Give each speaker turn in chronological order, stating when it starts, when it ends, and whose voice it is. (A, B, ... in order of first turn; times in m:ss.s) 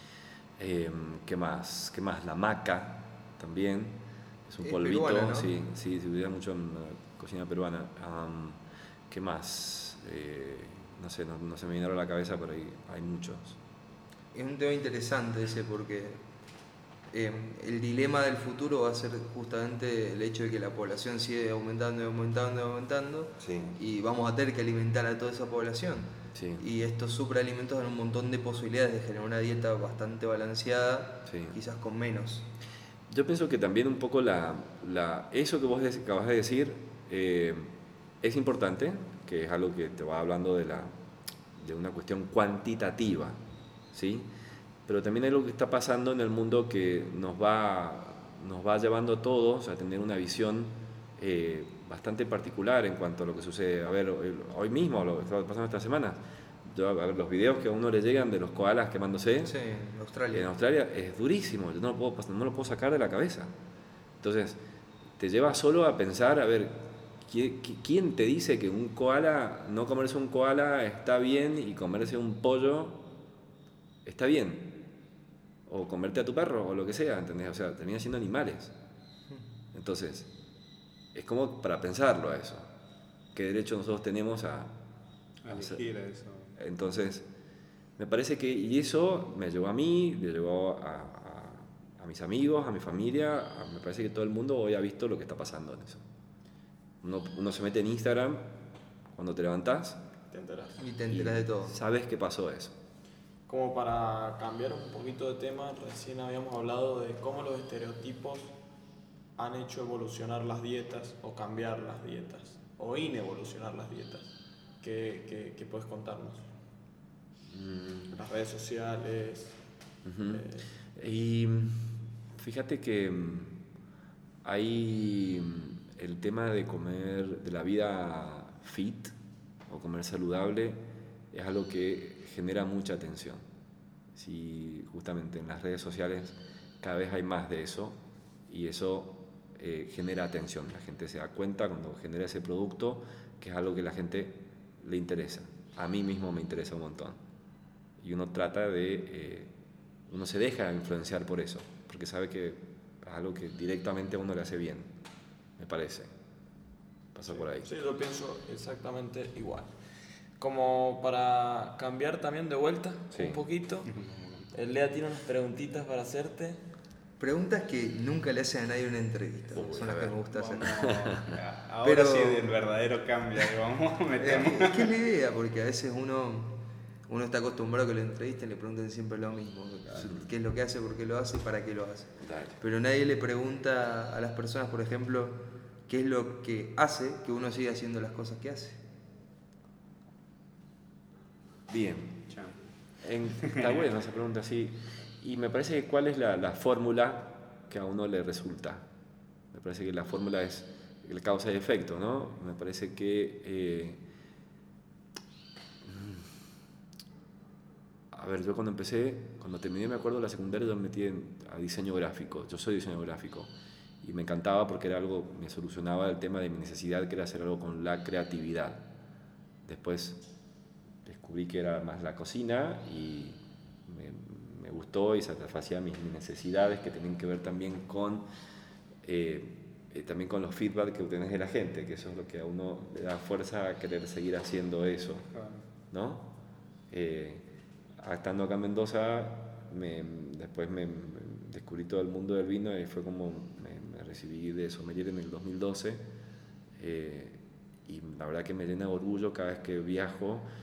0:00.6-0:13.6 A
0:04.6-0:05.5 B
0:14.3-0:16.2 B
0:17.1-0:32.5 B
0:23.4-0:23.8 A
0:26.3-0:26.6 A
0:31.3-0:31.5 A
0:33.1-0:40.9 A
0:41.5-0:43.4 A
0:43.9-0:44.3 A
0:44.8-0:59.5 A
0:59.4-1:00.5 B
1:00.3-1:03.5 A
1:04.2-1:04.6 A
1:05.2-1:13.1 A
1:14.0-1:14.8 A
1:15.7-1:18.7 A
1:19.7-1:20.3 A
1:21.1-1:22.7 A
1:23.3-1:24.7 A
1:25.4-1:26.5 C
1:25.5-1:25.8 A
1:26.6-1:27.3 A
1:28.0-1:36.0 A
1:37.0-1:38.5 A
1:39.1-1:40.0 A
1:40.3-1:40.8 D
1:40.8-1:41.7 B
1:41.1-1:42.7 A
1:43.5-1:48.5 D
1:49.4-1:56.4 D
1:57.5-1:58.1 A
1:58.1-1:59.6 D
2:00.0-2:03.6 A
2:00.3-2:00.6 D
2:04.4-2:09.1 A
2:09.7-2:10.8 A
2:11.3-2:13.4 A
2:14.1-2:27.2 A
2:28.0-2:29.5 A
2:30.1-2:34.9 A
2:35.6-2:36.1 A
2:37.1-2:37.7 A
2:37.6-2:39.7 D
2:40.4-2:43.9 D
2:43.1-2:43.4 A
2:43.9-2:44.4 C
2:44.5-2:46.6 D
2:47.2-2:50.8 B
2:49.5-2:51.4 A
2:50.3-2:54.9 C
2:51.8-2:52.4 B
2:54.2-3:08.8 B
2:59.9-3:00.3 A
3:02.2-3:02.6 A
3:11.7-3:12.2 A
3:12.3-3:12.6 C
3:13.0-3:18.8 A
3:19.5-3:24.0 A
3:25.8-3:26.3 A
3:28.1-3:38.9 A
3:39.6-3:40.3 A
3:41.0-3:48.3 A
3:49.0-3:55.3 A
3:55.3-3:55.6 C
3:55.9-3:56.4 A
3:56.9-3:57.4 A
3:58.0-4:06.0 A
4:06.8-4:10.5 A